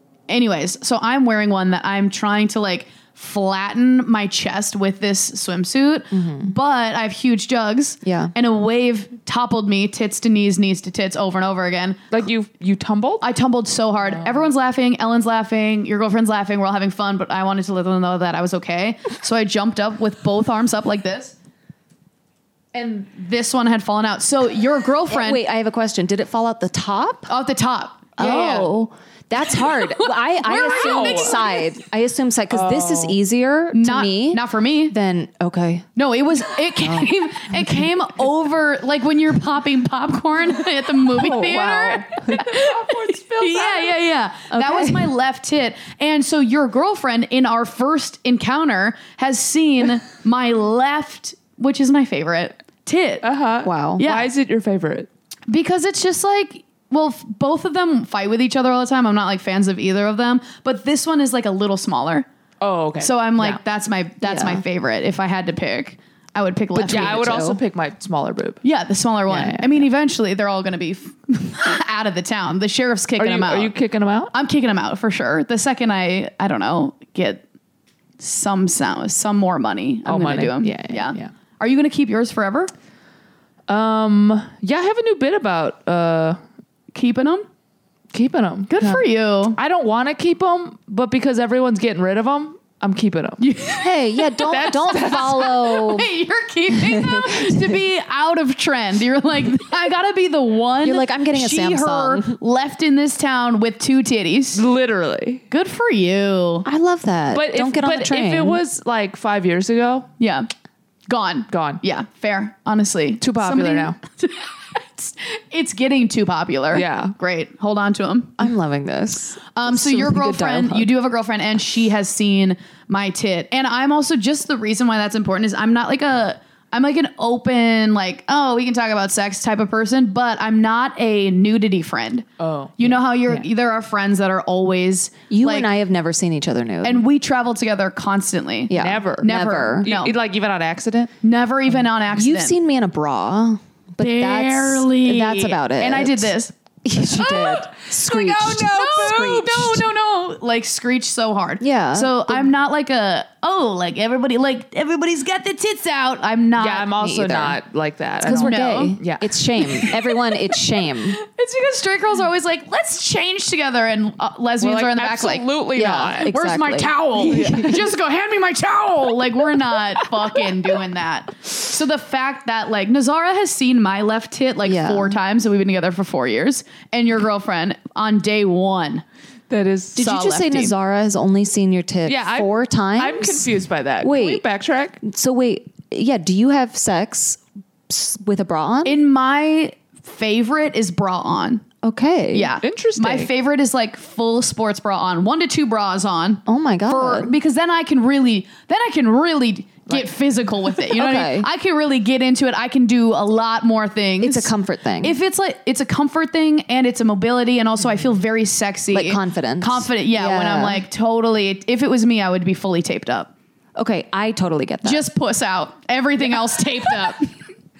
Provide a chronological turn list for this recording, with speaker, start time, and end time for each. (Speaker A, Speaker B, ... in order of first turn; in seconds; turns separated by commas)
Speaker A: 0.3-12.1, Speaker B: 6.1-6.5, Speaker B: 8.0-8.3, Speaker C: 12.1-13.2, Speaker A: 13.2-21.3, Speaker C: 14.1-14.4, Speaker A: 22.7-25.4, Speaker B: 25.1-27.3, Speaker A: 27.3-28.7, Speaker B: 28.2-35.9, Speaker A: 29.6-31.6, Speaker C: 30.5-31.3, Speaker C: 32.5-33.2, Speaker A: 33.7-34.9, Speaker A: 36.0-53.2, Speaker B: 36.8-37.1, Speaker B: 41.1-42.4, Speaker C: 42.3-44.0, Speaker B: 44.6-45.0, Speaker C: 53.2-55.1, Speaker B: 53.6-54.0, Speaker A: 54.0-54.3, Speaker A: 55.5-62.3, Speaker C: 62.6-63.6, Speaker A: 63.0-67.5, Speaker B: 64.2-64.6, Speaker C: 66.7-68.6, Speaker B: 66.8-67.6, Speaker A: 68.6-73.7, Speaker C: 69.3-69.7, Speaker C: 73.2-74.3, Speaker A: 74.3-77.4, Speaker A: 78.2-82.7, Speaker C: 80.0-81.3, Speaker C: 83.7-86.4, Speaker A: 86.9-87.5, Speaker C: 88.1-89.0, Speaker A: 88.7-89.6, Speaker C: 89.6-93.4, Speaker A: 93.4-104.6, Speaker B: 93.7-96.1, Speaker C: 94.5-95.4, Speaker B: 96.7-97.8, Speaker B: 100.8-102.4, Speaker C: 104.5-105.4, Speaker A: 105.5-106.7, Speaker B: 106.6-108.6, Speaker C: 107.3-110.1, Speaker A: 110.2-110.5, Speaker A: 111.1-118.4, Speaker C: 111.5-111.8, Speaker C: 113.2-114.0, Speaker C: 116.7-117.2, Speaker B: 118.4-120.9, Speaker A: 119.5-132.3, Speaker C: 132.4-133.4, Speaker A: 132.8-135.7, Speaker B: 135.3-137.1, Speaker A: 136.8-140.1, Speaker B: 138.7-139.9, Speaker C: 138.8-141.1, Speaker A: 141.2-142.5, Speaker B: 142.1-146.3, Speaker A: 144.0-156.9, Speaker B: 146.8-149.9, Speaker C: 148.2-149.2, Speaker B: 151.6-152.5, Speaker C: 156.6-159.3, Speaker B: 157.0-157.6, Speaker B: 158.2-161.2, Speaker A: 158.3-159.0, Speaker A: 159.6-160.1, Speaker A: 161.1-165.5, Speaker C: 164.6-166.3, Speaker B: 165.7-167.7, Speaker A: 166.2-179.0, Speaker C: 167.2-167.8, Speaker B: 174.6-175.2, Speaker C: 179.5-180.0, Speaker B: 179.9-184.4, Speaker A: 180.0-180.7, Speaker C: 182.1-185.0, Speaker B: 185.0-189.0, Speaker A: 188.8-191.6, Speaker B: 191.8-192.5, Speaker A: 192.3-213.3, Speaker C: 192.6-193.3, Speaker B: 196.4-197.3, Speaker B: 200.9-201.5, Speaker B: 204.2-205.2, Speaker B: 208.9-210.8, Speaker B: 213.8-215.0, Speaker A: 214.8-217.4